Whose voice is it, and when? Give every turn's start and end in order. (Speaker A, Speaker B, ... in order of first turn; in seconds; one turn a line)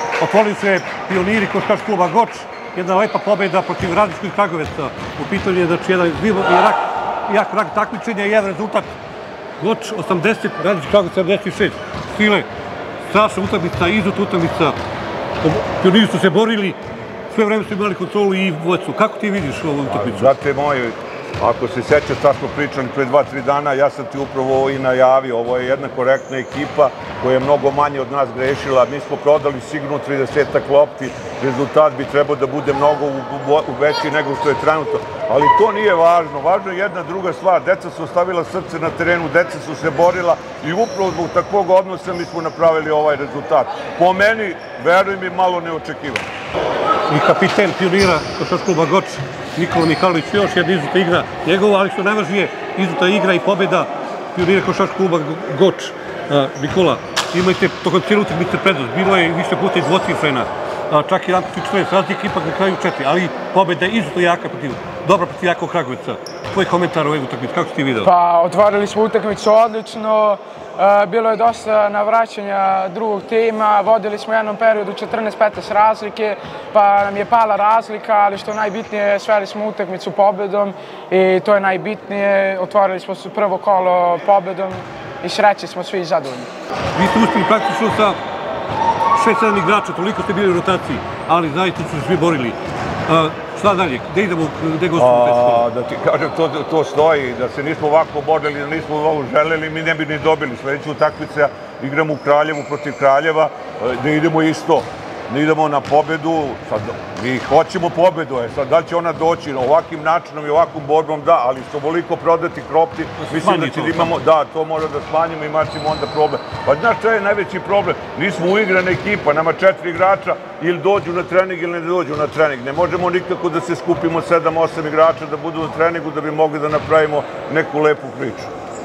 Speaker A: 0.2-8.9
Speaker A: 9.6-12.5
Speaker A: 13.1-14.7
Speaker A: 15.4-16.8
Speaker A: 17.3-20.3
Speaker B: 19.9-46.3
Speaker A: 47.1-68.1
Speaker C: 68.0-86.5
Speaker A: 87.0-88.2
Speaker A: 89.1-95.7
Speaker B: 95.0-128.5
Speaker A: 113.2-114.1